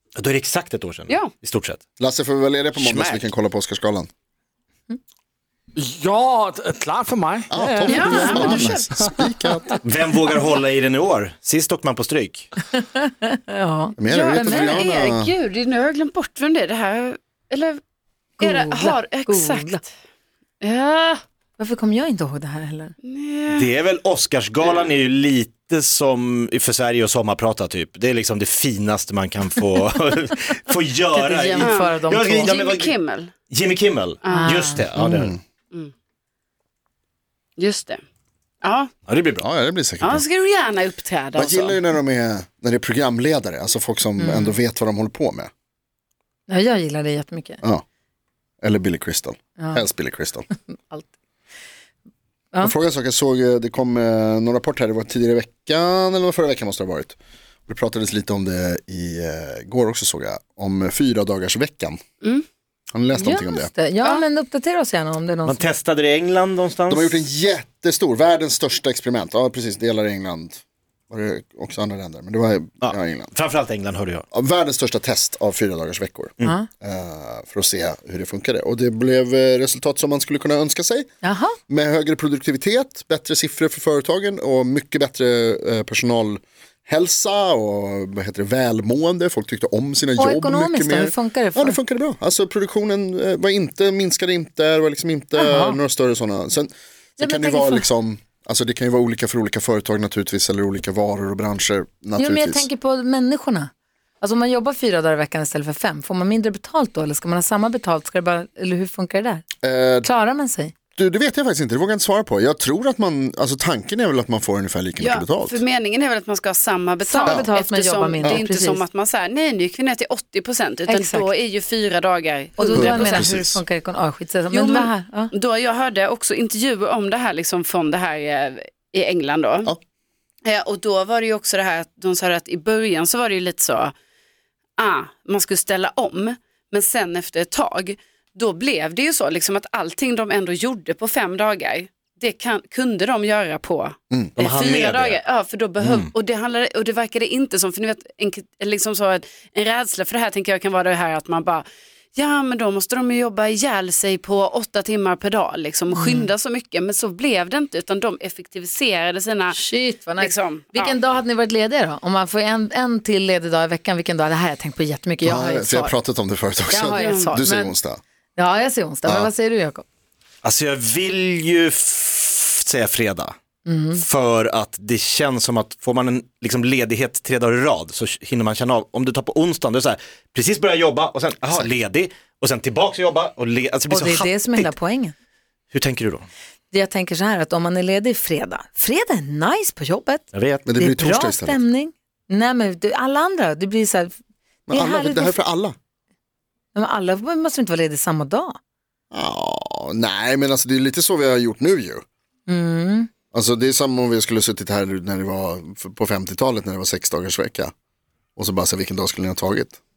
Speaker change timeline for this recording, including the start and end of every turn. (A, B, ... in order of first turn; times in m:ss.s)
0:00.2-0:01.8 A
0:02.0-0:04.1 B
0:02.7-0:03.3 A
0:05.7-0:09.2 C
0:07.5-0:09.8 B
0:07.9-0:08.8 D
0:09.8-0:12.5 A
0:12.8-0:14.9 E
0:14.0-0:15.3 B
0:14.0-0:17.8 D
0:18.4-0:19.8 E
0:18.4-0:19.9 D
0:20.6-0:21.2 D
0:21.6-0:22.9 E
0:23.0-0:23.7 D
0:23.5-0:33.0 A
0:31.1-0:32.5 E
0:31.6-0:33.3 D
0:33.5-0:35.4 A
0:34.2-0:34.6 D
0:34.3-0:34.8 E
0:35.0-0:35.4 B
0:37.6-0:38.0 D
0:38.6-0:38.9 D
0:39.1-0:39.4 A
0:39.4-0:40.2 B
0:40.0-0:41.8 D
0:41.4-0:45.5 B
0:44.2-0:44.5 E
0:46.5-0:47.6 E
0:48.6-0:50.4 B
0:49.6-0:49.8 E
0:50.7-0:51.1 E
0:52.6-1:02.0 B
1:02.9-1:03.7 B
1:03.1-1:05.6 E
1:05.4-1:07.2 A
1:06.9-1:13.3 B
1:12.8-1:14.2 A
1:14.3-1:21.1 B
1:16.4-1:16.7 E
1:21.2-1:21.6 E
1:21.7-1:42.7 B
1:30.2-1:31.8 E
1:35.4-1:35.8 E
1:37.2-1:37.9 E
1:42.2-1:49.4 E
1:49.6-1:50.1 B
1:50.0-1:50.7 E
1:51.0-1:55.6 B
1:55.0-2:03.3 D
1:57.0-1:58.8 E
2:00.9-2:01.3 E
2:02.6-2:05.3 E
2:02.7-2:03.6 B
2:04.5-2:09.7 D
2:10.4-2:13.9 D
2:14.8-2:39.6 D
2:24.1-2:24.4 B
2:24.4-2:25.2 A
2:25.8-2:26.1 A
2:35.9-2:36.3 E
2:39.5-2:46.0 E
2:40.2-2:41.0 D
2:45.2-2:48.0 B
2:46.7-2:47.8 E
2:46.9-2:47.3 D
2:48.4-2:49.8 E
2:49.0-2:49.3 B
2:50.4-2:53.3 A
2:53.6-2:54.0 E
2:54.0-3:04.7 A
3:03.9-3:05.1 E
3:05.7-3:06.3 A
3:06.7-3:10.2 E
3:10.3-3:10.7 A
3:10.6-3:11.6 B
3:10.8-3:14.1 E
3:14.7-3:15.7 B
3:14.7-3:15.4 E
3:16.7-3:18.6 E
3:19.1-3:22.0 B
3:22.5-3:23.1 E
3:23.3-3:27.7 B
3:28.4-3:29.8 B